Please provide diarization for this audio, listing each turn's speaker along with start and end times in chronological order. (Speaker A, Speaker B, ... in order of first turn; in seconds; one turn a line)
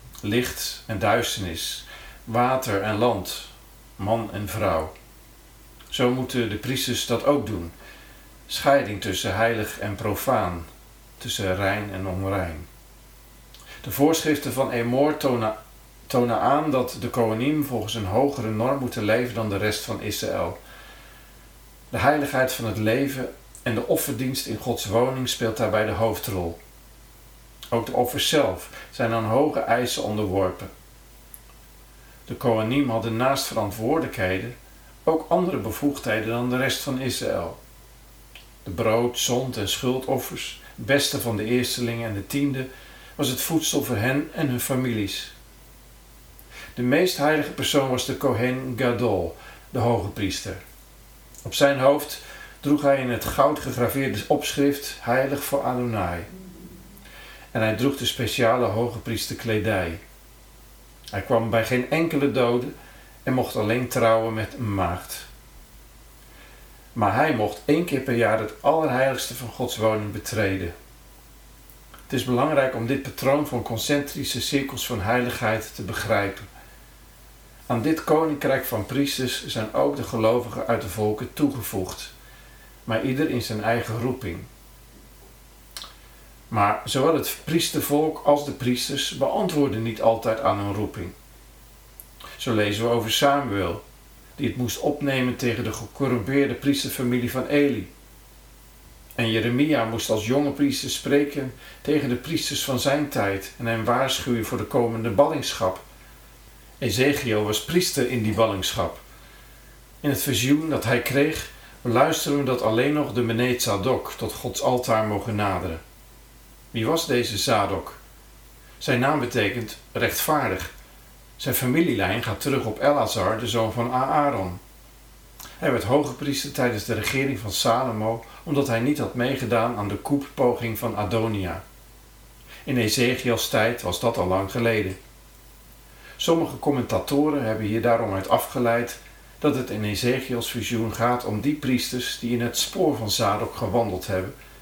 Speaker A: 0.2-4.9
Speaker A: 5.9-7.8
Speaker A: 8.5-10.7
Speaker A: 11.2-12.7
Speaker A: 13.8-15.6
Speaker A: 16.1-20.6
Speaker A: 21.9-26.6
Speaker A: 27.7-30.7
Speaker A: 32.3-37.6
Speaker A: 38.6-45.3
Speaker A: 46.8-50.6
Speaker A: 51.4-56.3
Speaker A: 57.5-60.0
Speaker A: 61.1-62.7
Speaker A: 63.2-65.3
Speaker A: 67.0-70.7
Speaker A: 72.1-76.5
Speaker A: 77.7-82.1
Speaker A: 82.9-84.5
Speaker A: 86.5-91.1
Speaker A: 92.4-93.8
Speaker A: 94.4-97.9
Speaker A: 99.2-105.8
Speaker A: 106.8-109.0
Speaker A: 110.0-115.8
Speaker A: 116.7-118.0
Speaker A: 118.8-120.7
Speaker A: 121.4-124.6
Speaker A: 125.6-131.6
Speaker A: 132.7-135.0
Speaker A: 136.2-144.3